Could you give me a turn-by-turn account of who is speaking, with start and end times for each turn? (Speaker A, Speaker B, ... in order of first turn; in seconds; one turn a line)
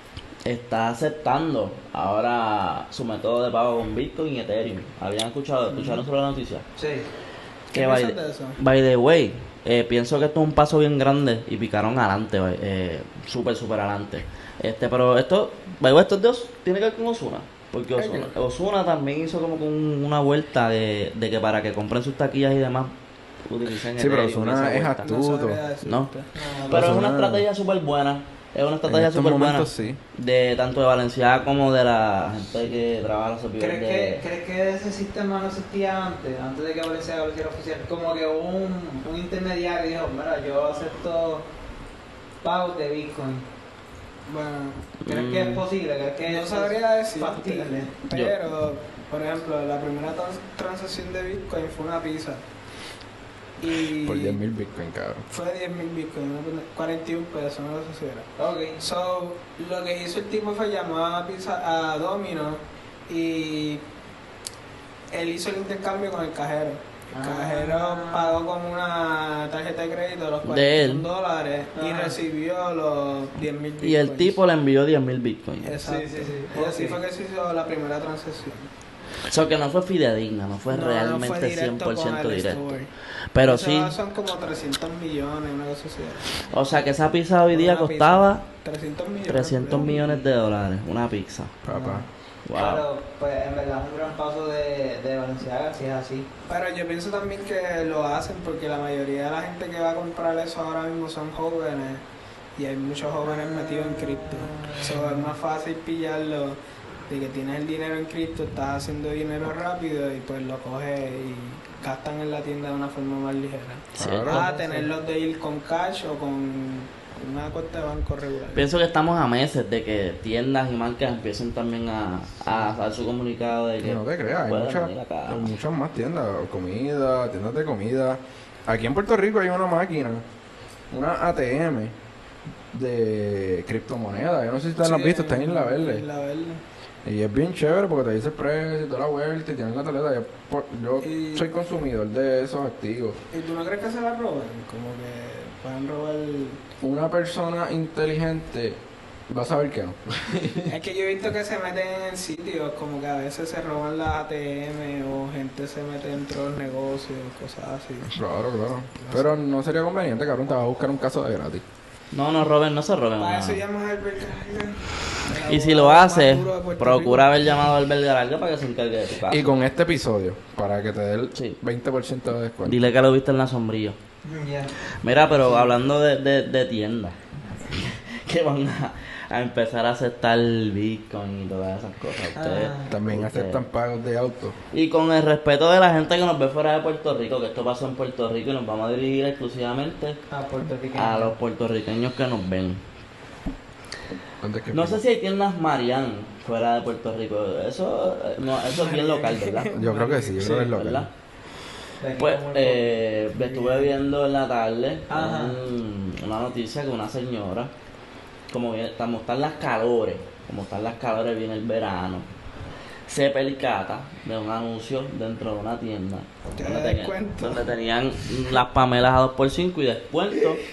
Speaker A: 0.4-6.7
Speaker B: 5.7-6.0
Speaker C: 6.8-7.1
Speaker B: 7.7-8.6
Speaker A: 7.7-22.9
Speaker B: 17.9-18.3
Speaker A: 23.4-25.0
Speaker D: 24.0-25.6
Speaker B: 25.0-26.4
Speaker A: 25.8-26.1
Speaker C: 26.3-27.0
Speaker D: 26.7-27.4
Speaker A: 26.7-34.3
Speaker D: 28.8-30.0
Speaker C: 33.6-41.5
Speaker C: 42.4-43.5
Speaker B: 44.3-44.8
Speaker A: 45.0-45.7
Speaker C: 45.0-47.9
Speaker B: 46.2-52.4
Speaker A: 48.1-48.4
Speaker B: 53.6-54.4
Speaker D: 54.0-55.2
Speaker B: 55.3-63.8
Speaker C: 58.4-58.8
Speaker B: 65.1-74.4
Speaker C: 67.1-68.4
Speaker A: 70.4-71.1
Speaker C: 71.7-72.2
Speaker A: 73.8-75.8
Speaker B: 75.6-78.7
Speaker C: 75.8-77.0
Speaker A: 79.3-82.8
Speaker B: 80.7-82.9
Speaker A: 83.3-84.0
Speaker B: 83.4-86.3
Speaker A: 86.5-88.4
Speaker B: 87.5-90.2
Speaker A: 89.3-91.5
Speaker D: 91.6-92.1
Speaker C: 91.7-96.3
Speaker A: 92.5-92.8
Speaker B: 96.5-102.0
Speaker B: 102.5-118.7
Speaker C: 103.3-105.3
Speaker A: 113.9-114.4
Speaker D: 114.0-114.4
Speaker C: 114.2-114.9
Speaker A: 118.5-125.5
Speaker D: 123.8-130.2
Speaker D: 130.9-131.9
Speaker D: 132.7-136.0
Speaker B: 134.8-136.6
Speaker D: 137.0-143.2
Speaker B: 141.0-141.4
Speaker B: 143.3-146.6
Speaker D: 146.8-150.7
Speaker B: 150.7-158.1
Speaker D: 158.1-161.6
Speaker B: 159.0-159.4
Speaker A: 162.1-163.6
Speaker B: 163.2-167.4
Speaker A: 165.5-169.5
Speaker D: 169.2-172.8
Speaker A: 172.6-174.0
Speaker C: 174.2-175.8
Speaker A: 175.0-183.6
Speaker C: 182.3-182.9
Speaker D: 182.9-184.6
Speaker A: 184.7-190.2
Speaker C: 190.3-191.3
Speaker A: 190.9-192.8
Speaker D: 194.4-195.0
Speaker A: 194.7-199.7
Speaker C: 198.7-200.7
Speaker B: 199.0-200.0
Speaker D: 199.7-201.1
Speaker A: 200.4-201.1
Speaker C: 202.0-203.9
Speaker A: 202.2-207.7
Speaker C: 205.1-205.6
Speaker A: 208.5-212.3
Speaker A: 213.1-220.6
Speaker B: 216.5-217.7